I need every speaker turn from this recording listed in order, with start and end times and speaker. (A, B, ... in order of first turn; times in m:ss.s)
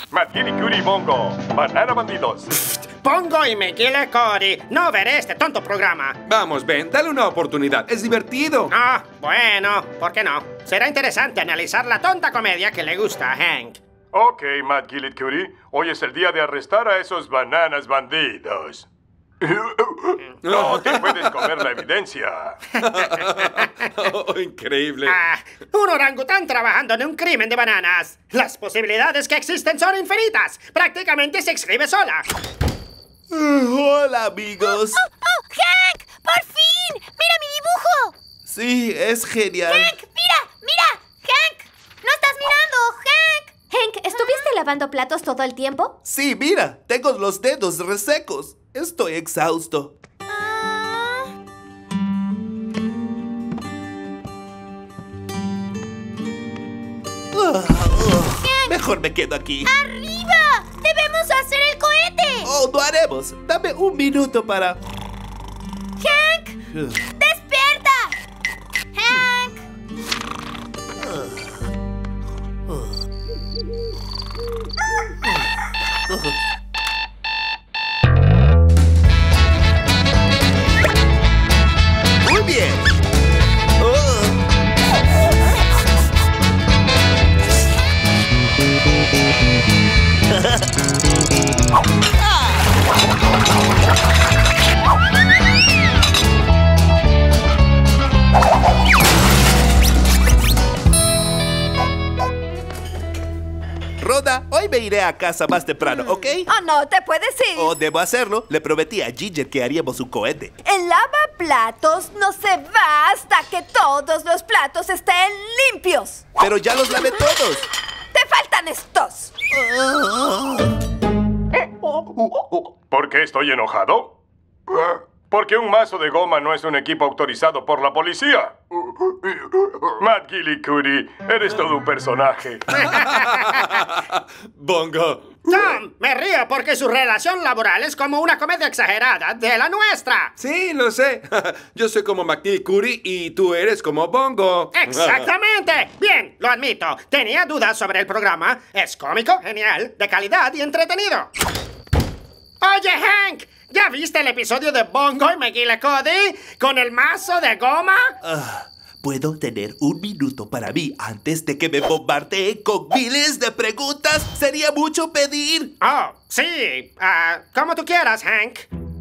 0:00.1-0:02.7 A
0:02.9-0:06.2 B
0:06.3-0:08.7 C
0:08.7-0:13.8 B
0:14.1-0:18.8 A
0:19.4-0:22.6 A
0:20.4-0:21.7 C
0:22.8-0:25.2 C
0:23.0-0:23.9 B
0:25.0-0:32.2 B
0:33.3-0:35.0 D
0:34.6-0:38.1 E
0:38.4-0:39.9 D
0:39.6-0:43.5 E
0:43.7-0:45.9 F
0:44.1-0:44.5 E
0:46.0-0:49.9 D
0:50.3-0:51.3 E
0:57.3-0:59.7 D
0:58.4-0:58.7 E
0:59.6-1:02.5 E
1:02.4-1:04.8 D
1:06.0-1:06.6 E
1:06.7-1:07.0 D
1:07.2-1:08.1 E
1:08.9-1:09.6 E
1:11.0-1:11.5 D
1:16.1-1:16.4 D
1:22.2-1:22.8 D
1:23.8-1:24.4 D
1:30.3-1:30.6 D
1:32.2-1:32.6 D
1:44.0-1:46.5 D
1:46.5-1:47.7 G
1:47.6-1:50.5 D
1:50.6-1:56.2 G
1:56.4-1:57.6 D
1:58.1-1:59.3 G
1:59.5-2:00.7 D
2:02.4-2:04.1 A
2:04.7-2:12.8 A
2:12.7-2:13.8 B
2:12.7-2:15.8 C
2:15.5-2:20.3 B
2:20.4-2:25.3 C
2:24.7-2:31.3 B
2:32.6-2:38.1 B
2:38.2-2:45.7 D
2:45.8-2:48.7 B